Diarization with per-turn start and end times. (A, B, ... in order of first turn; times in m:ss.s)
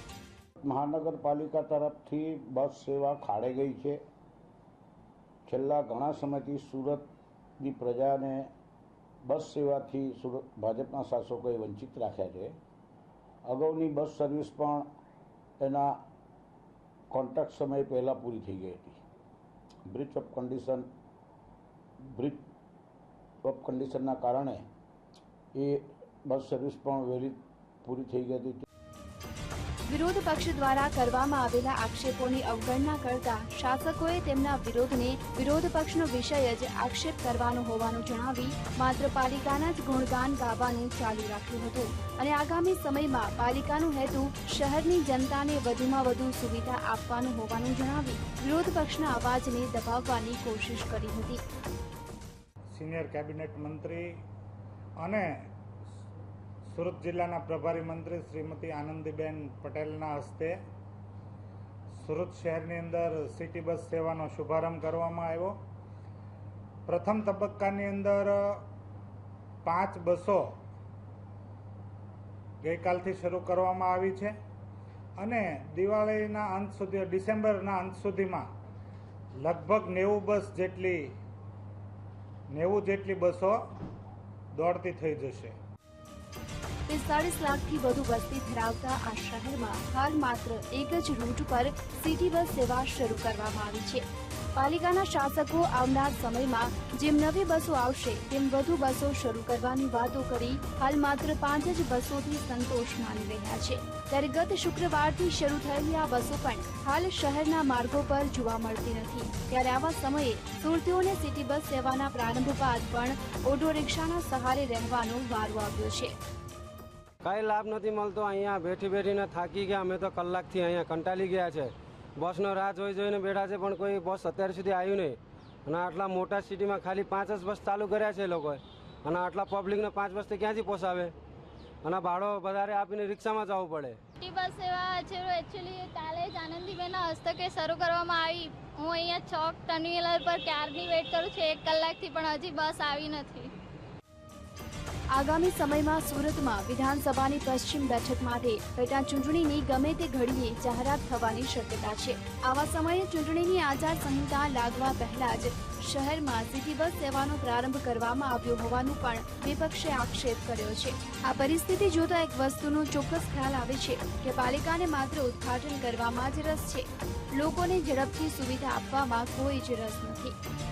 0:00.6-0:04.0 A
0:05.5-0:08.5 A
0:09.3-0:12.6 A
0:13.5-0:14.9 A
0:15.6-0:16.0 A
0:17.1-0:19.0 A
0:19.9-0:20.9 A
0:22.0-0:22.4 A
0:23.4-0:24.6 A
0:25.6-0:28.6 A
0:29.9-0:51.4 B
0:52.7-0:54.2 C
0:55.0-0:55.4 C
0:56.7-1:00.6 C
1:01.9-1:05.6 C
1:06.9-1:08.6 C
1:09.6-1:10.5 C
1:12.6-1:14.3 C
1:15.2-1:18.5 C
1:19.4-1:21.2 C
1:22.5-1:23.6 C
1:24.5-1:25.6 C
1:26.9-1:34.0 B
1:34.6-1:56.2 B
1:57.2-2:11.1 D
2:11.8-2:12.6 D
2:13.2-2:14.0 D
2:14.2-2:23.5 E
2:25.1-2:50.4 B